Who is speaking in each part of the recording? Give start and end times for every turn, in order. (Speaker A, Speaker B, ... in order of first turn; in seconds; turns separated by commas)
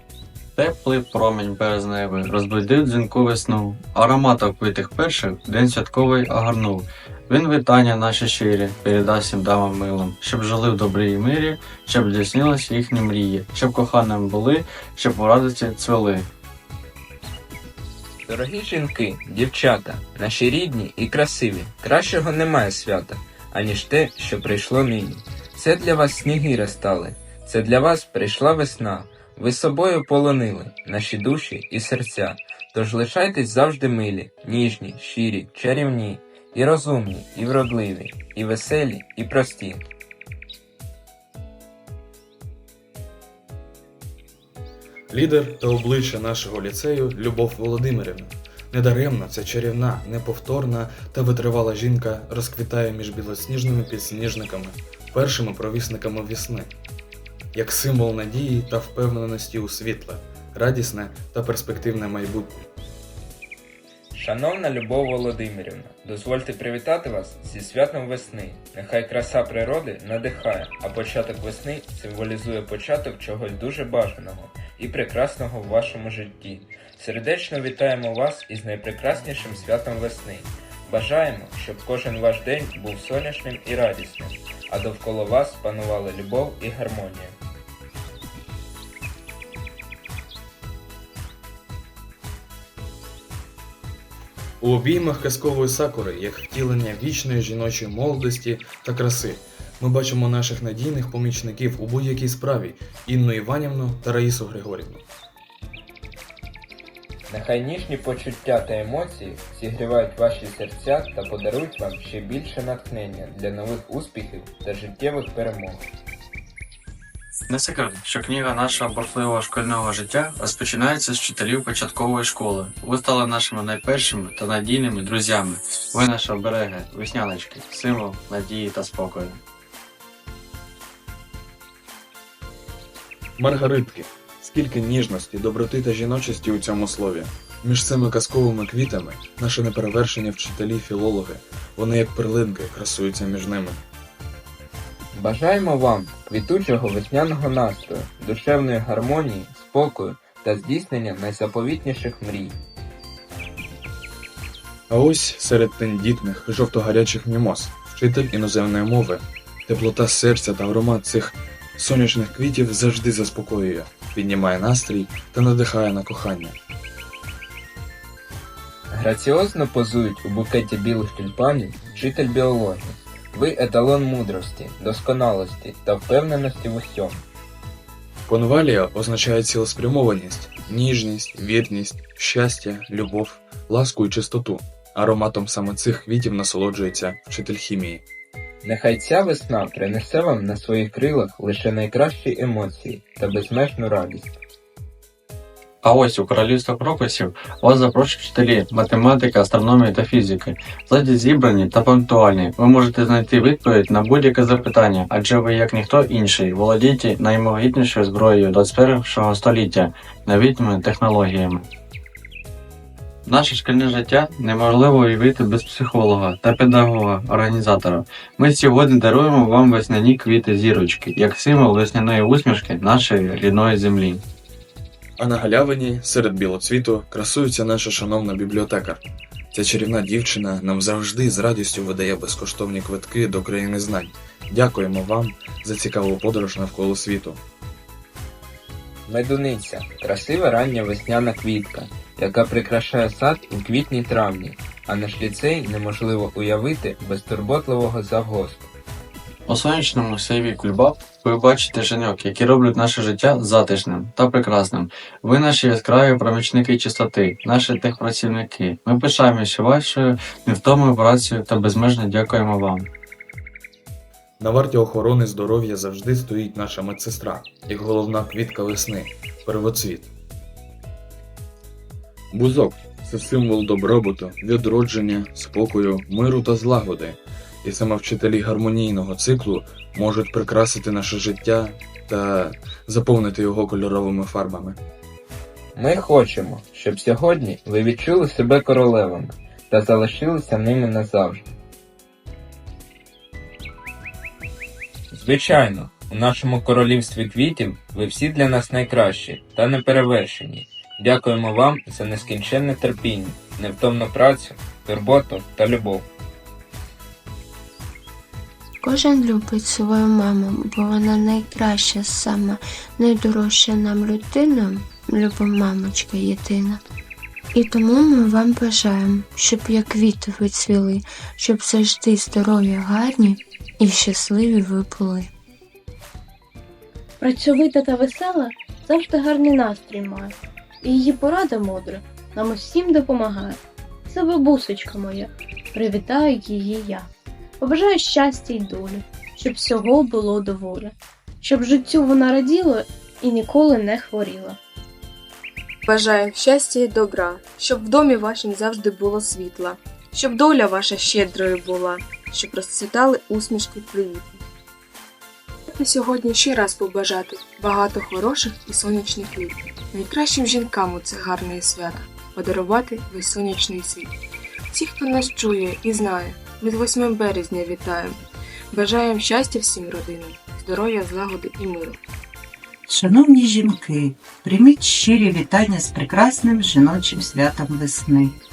Speaker A: 0.6-16.3, Speaker B: 18.3-39.8, Speaker C: 45.1-56.7, Speaker C: 57.5-62.6, Speaker B: 64.1-87.4, Speaker C: 94.6-105.0, Speaker B: 107.3-115.8, Speaker A: 117.5-129.4, Speaker C: 133.4-143.8, Speaker B: 145.1-152.6, Speaker C: 154.9-166.6, Speaker B: 168.9-177.2, Speaker C: 178.3-188.0, Speaker B: 188.6-194.4, Speaker A: 195.8-211.7, Speaker A: 213.2-224.2, Speaker C: 225.2-237.4, Speaker B: 239.1-248.7, Speaker A: 249.5-262.9, Speaker C: 264.4-270.1, Speaker C: 272.3-284.8, Speaker B: 285.7-291.5, Speaker B: 295.1-306.1, Speaker D: 308.8-316.8, Speaker D: 317.5-325.3, Speaker E: 327.2-337.1, Speaker E: 337.6-344.6, Speaker F: 345.9-354.4, Speaker F: 355.7-364.1, Speaker F: 364.7-372.0, Speaker G: 372.9-378.4